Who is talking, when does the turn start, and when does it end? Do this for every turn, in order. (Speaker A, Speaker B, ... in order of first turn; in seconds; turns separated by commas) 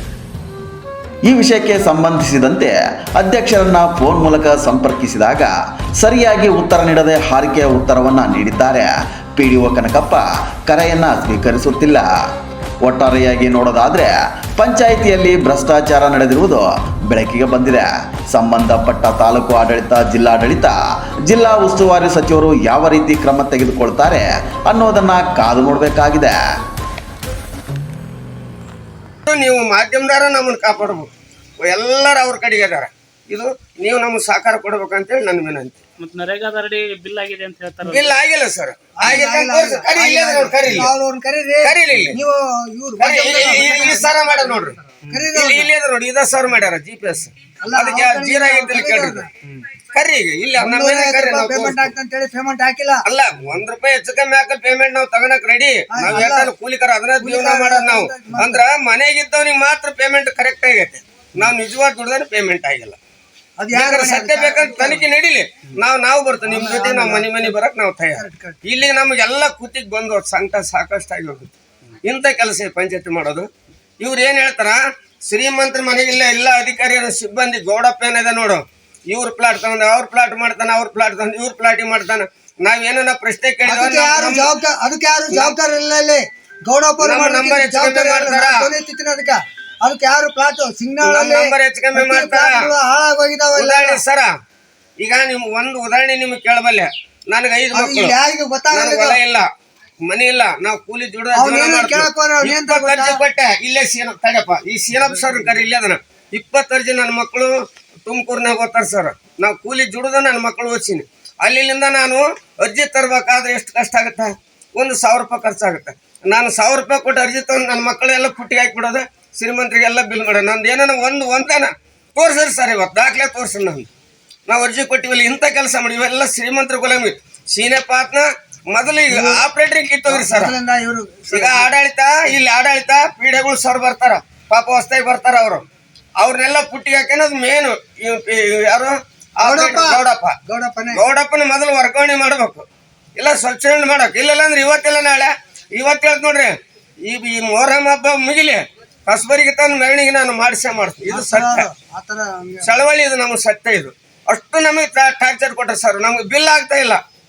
Speaker A: 1.3-12.1, Speaker A: 12.8-20.7, Speaker A: 21.3-26.4, Speaker B: 29.3-31.1, Speaker B: 31.6-35.8, Speaker C: 36.0-38.1, Speaker B: 37.8-40.9, Speaker D: 39.0-45.7, Speaker B: 41.6-42.2, Speaker B: 43.0-44.8, Speaker B: 45.3-49.2, Speaker D: 47.6-49.3, Speaker B: 49.9-51.9, Speaker D: 50.6-53.0, Speaker B: 53.0-63.0, Speaker D: 55.9-56.5, Speaker D: 57.2-58.6, Speaker D: 63.6-65.0, Speaker B: 63.7-71.5, Speaker D: 66.5-67.3, Speaker D: 68.2-68.6, Speaker B: 72.0-73.5, Speaker B: 74.0-84.5, Speaker D: 83.7-94.0, Speaker B: 85.3-85.6, Speaker B: 87.0-88.7, Speaker B: 91.0-92.6, Speaker B: 93.5-94.3, Speaker B: 95.0-98.2, Speaker D: 97.7-99.2, Speaker B: 98.7-99.5, Speaker B: 100.1-107.5, Speaker D: 101.3-103.2, Speaker B: 108.0-123.9, Speaker B: 124.5-130.6, Speaker D: 129.1-129.4, Speaker D: 130.1-131.7, Speaker B: 131.3-135.7, Speaker B: 136.2-140.3, Speaker D: 139.4-141.0, Speaker B: 140.9-142.7, Speaker B: 143.2-146.5, Speaker B: 147.1-151.7, Speaker D: 151.1-152.8, Speaker B: 152.6-157.0